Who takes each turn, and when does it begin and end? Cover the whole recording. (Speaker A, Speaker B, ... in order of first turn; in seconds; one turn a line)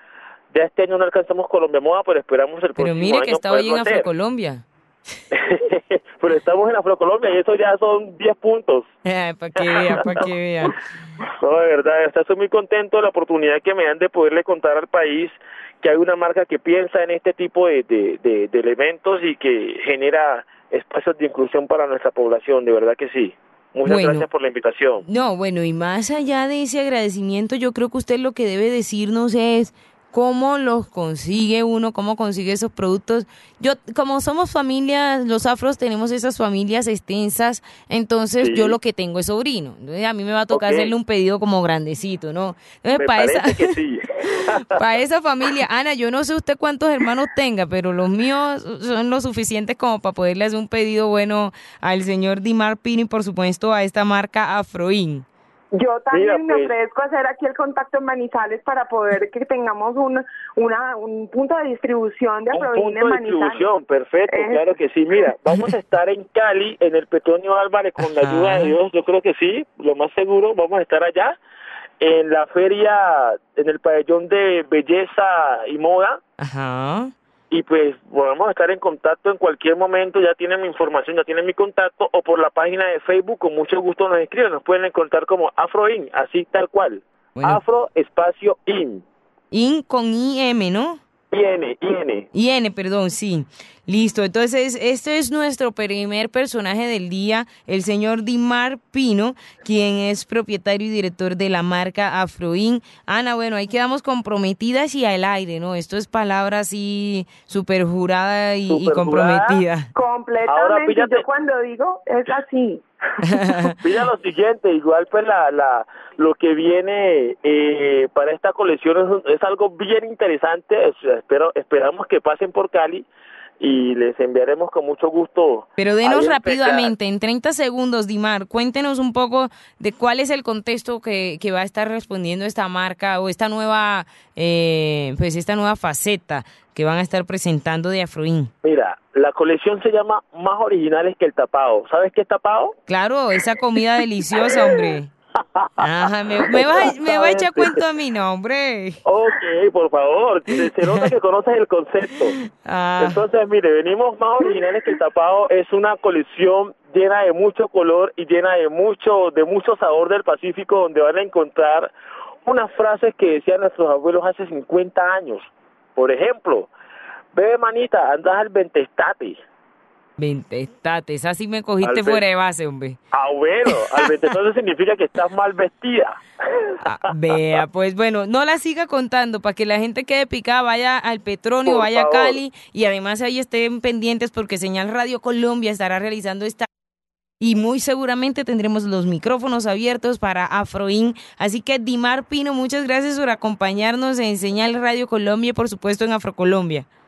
Speaker A: 0.5-4.1
Speaker B: 2.8-4.6
Speaker A: 5.3-8.9
Speaker B: 9.0-10.8
Speaker A: 9.6-25.1
Speaker B: 23.8-24.2
Speaker B: 25.0-43.7
Speaker A: 38.4-38.8
Speaker A: 40.5-40.9
Speaker A: 43.0-44.6
Speaker B: 44.7-55.2
Speaker C: 55.7-63.7
Speaker A: 56.1-56.7
Speaker A: 62.5-71.4
Speaker C: 64.3-64.7
Speaker B: 68.0-68.7
Speaker A: 72.0-76.2
Speaker B: 76.4-77.1
Speaker A: 77.5-89.0
Speaker B: 87.3-87.6
Speaker B: 89.5-91.0
Speaker A: 91.3-92.3
Speaker B: 92.3-109.9
Speaker A: 108.7-109.6
Speaker C: 109.9-112.8
Speaker A: 110.5-111.2
Speaker B: 113.3-113.8
Speaker A: 113.8-123.1
Speaker A: 123.6-126.9
Speaker B: 125.8-138.5
Speaker A: 138.6-142.8
Speaker B: 142.9-145.1
Speaker A: 145.5-145.9
Speaker B: 145.8-149.0
Speaker A: 146.5-147.8
Speaker A: 149.0-152.3
Speaker B: 152.5-153.2
Speaker A: 153.0-161.9
Speaker A: 162.4-166.7
Speaker A: 167.3-169.4
Speaker B: 170.2-173.0
Speaker A: 171.8-172.2
Speaker A: 173.1-176.9
Speaker B: 176.8-186.7
Speaker A: 181.6-182.4
Speaker B: 187.4-196.8